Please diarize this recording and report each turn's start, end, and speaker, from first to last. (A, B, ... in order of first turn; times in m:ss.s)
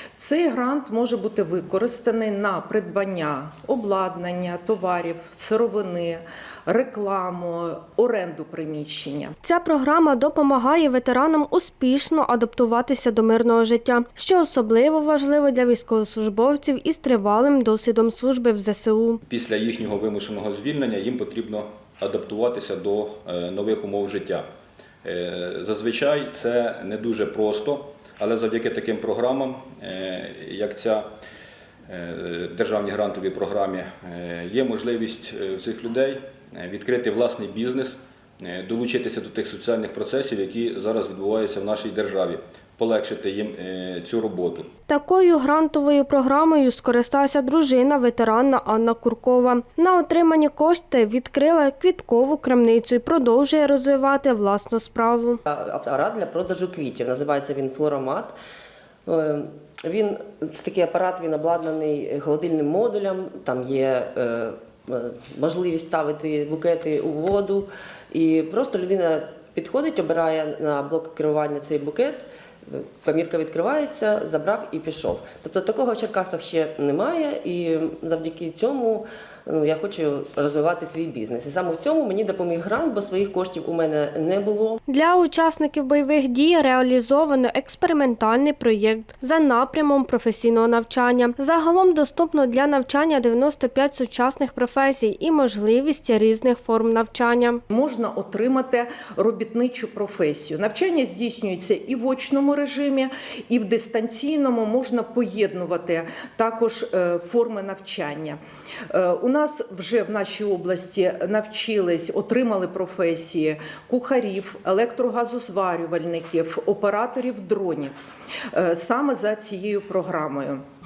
0:00.2-0:09.3 A
0:09.4-0:19.2 B
0:19.3-0:24.4 C
0:25.0-0:31.0 C
0:31.9-0:44.7 C
0:44.9-0:55.4 B
0:55.4-0:58.3 D
0:59.0-1:24.8 D
1:24.9-1:37.6 B
1:37.7-1:48.4 A
1:48.9-1:57.9 A
1:58.5-2:00.6 A